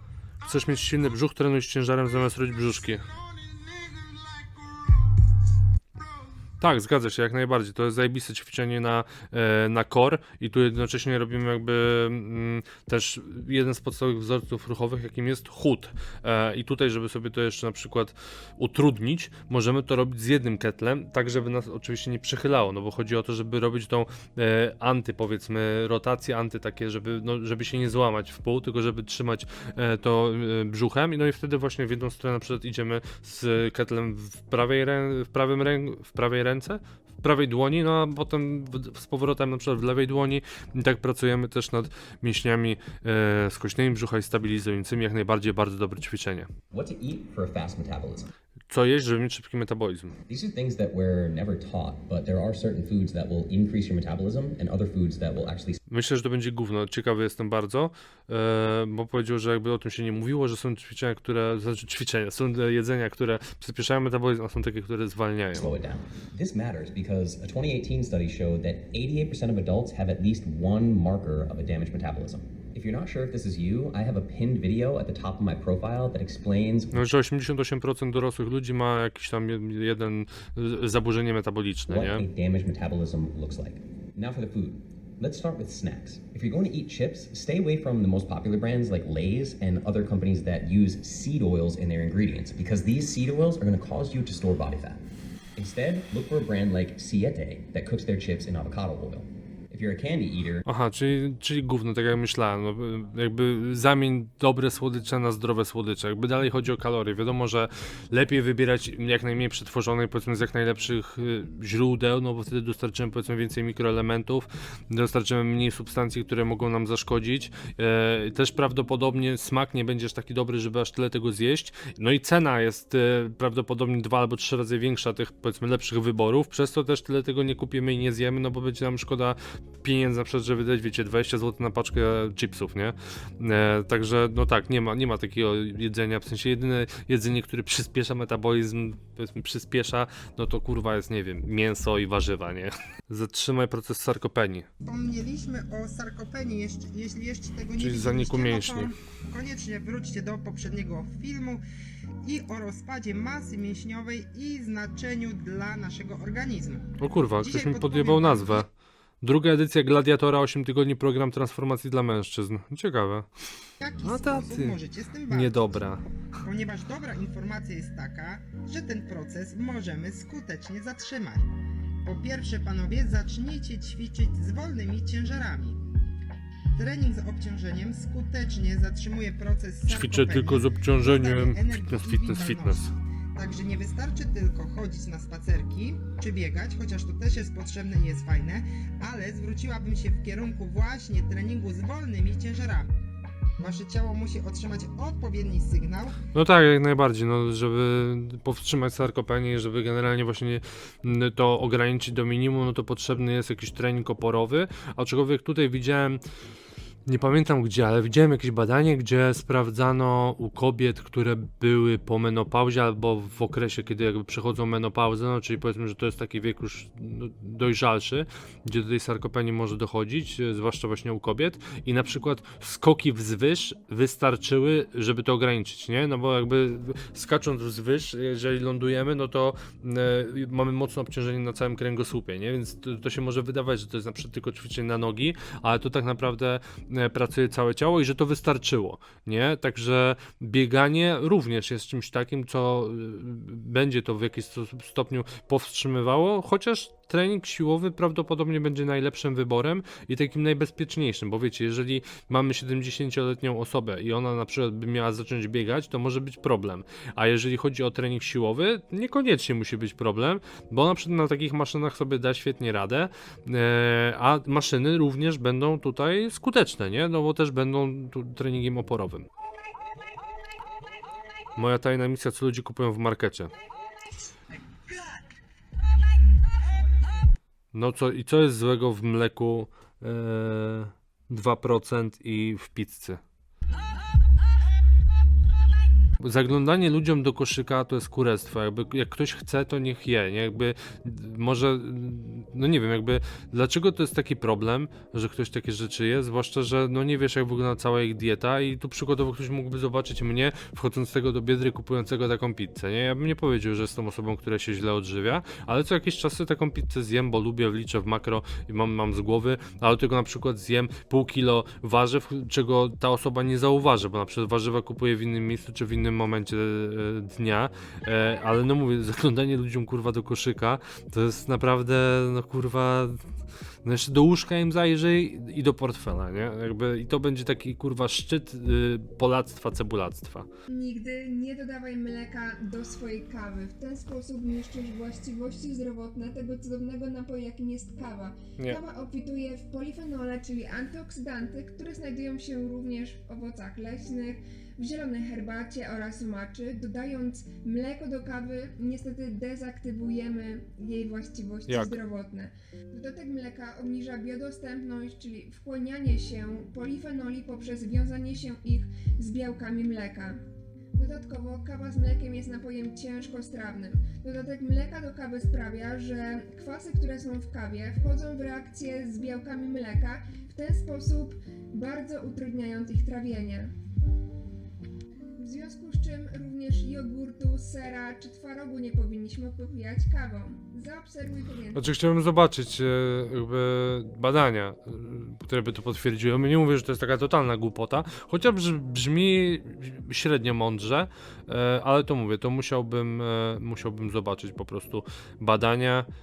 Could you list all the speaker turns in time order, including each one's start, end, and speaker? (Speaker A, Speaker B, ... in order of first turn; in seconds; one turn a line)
Speaker A: 0.4-3.0
Speaker A: 6.6-46.5
Speaker B: 46.7-48.3
Speaker A: 48.7-50.2
Speaker B: 50.3-55.8
Speaker A: 55.9-65.8
Speaker B: 65.5-77.0
Speaker A: 76.9-82.3
Speaker B: 81.9-95.0
Speaker B: 95.6-100.7
Speaker A: 100.7-144.7
Speaker C: 144.8-151.6
Speaker A: 147.8-148.9
Speaker C: 152.2-158.6
Speaker A: 157.0-158.7
Speaker A: 159.2-163.3
Speaker C: 163.8-165.8
Speaker A: 164.0-166.0
Speaker C: 166.4-171.5
Speaker C: 172.1-175.8
Speaker C: 176.8-192.9
Speaker A: 179.8-182.9
Speaker C: 193.6-196.2
Speaker A: 196.3-206.2
Speaker A: 207.1-269.3
Speaker A: 271.6-273.5
Speaker A: 277.7-283.2
Speaker A: 286.2-323.2
Speaker A: 323.8-330.5
Speaker D: 330.7-360.4
Speaker A: 351.7-352.0
Speaker D: 360.9-373.7
Speaker D: 375.4-381.8
Speaker A: 381.7-396.1